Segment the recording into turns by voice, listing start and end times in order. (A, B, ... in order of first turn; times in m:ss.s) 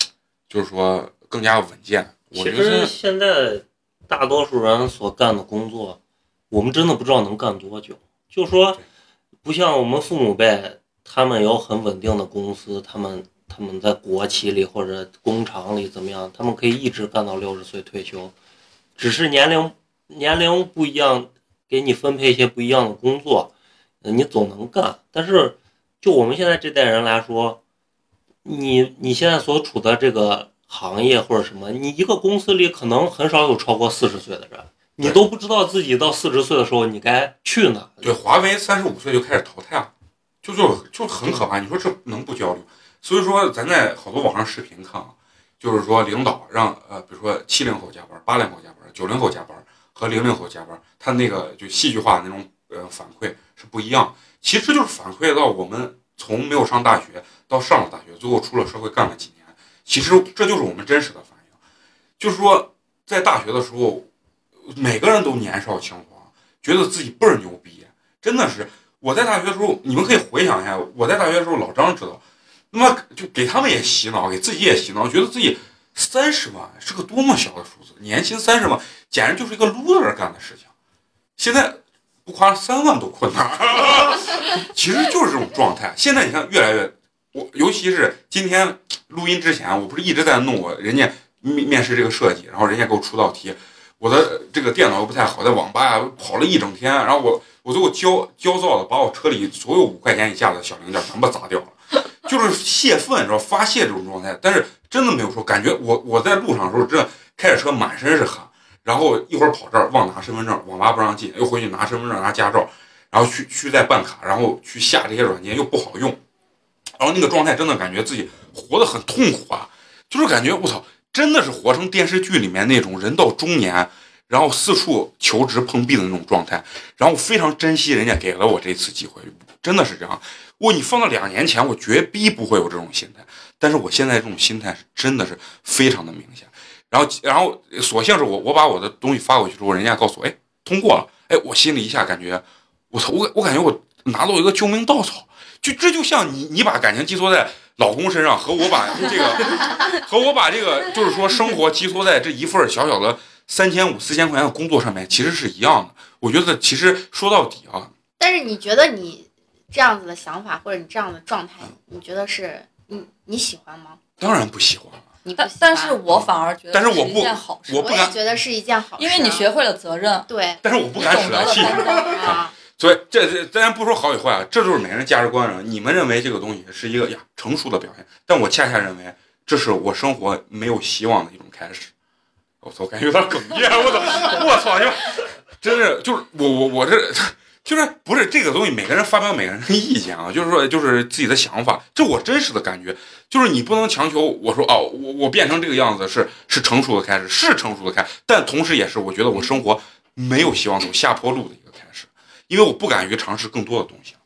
0:00.5-0:02.9 A
0:02.3-0:06.0 B
0:06.5-0:08.8 B
0:09.4-0:18.3 B
0:19.0-0:23.5 B
0:24.0-0:27.6 B
0:28.4-0:38.2 B
0:38.0-0:39.9 A
0:40.4-1:01.4 A
1:02.2-1:04.1 A
1:04.7-1:20.7 A
1:21.4-1:56.2 A
1:57.0-2:37.9 A
2:38.2-2:44.0 C
2:44.2-2:45.1 A
2:45.2-2:46.0 C
2:45.4-2:47.9 D
2:46.1-2:48.2 A
2:47.8-2:49.5 C
2:49.0-2:50.3 D
2:50.3-2:50.6 C
2:50.6-3:01.9 A
2:51.0-2:52.4 D
2:51.7-2:52.5 C
3:02.6-3:24.2 A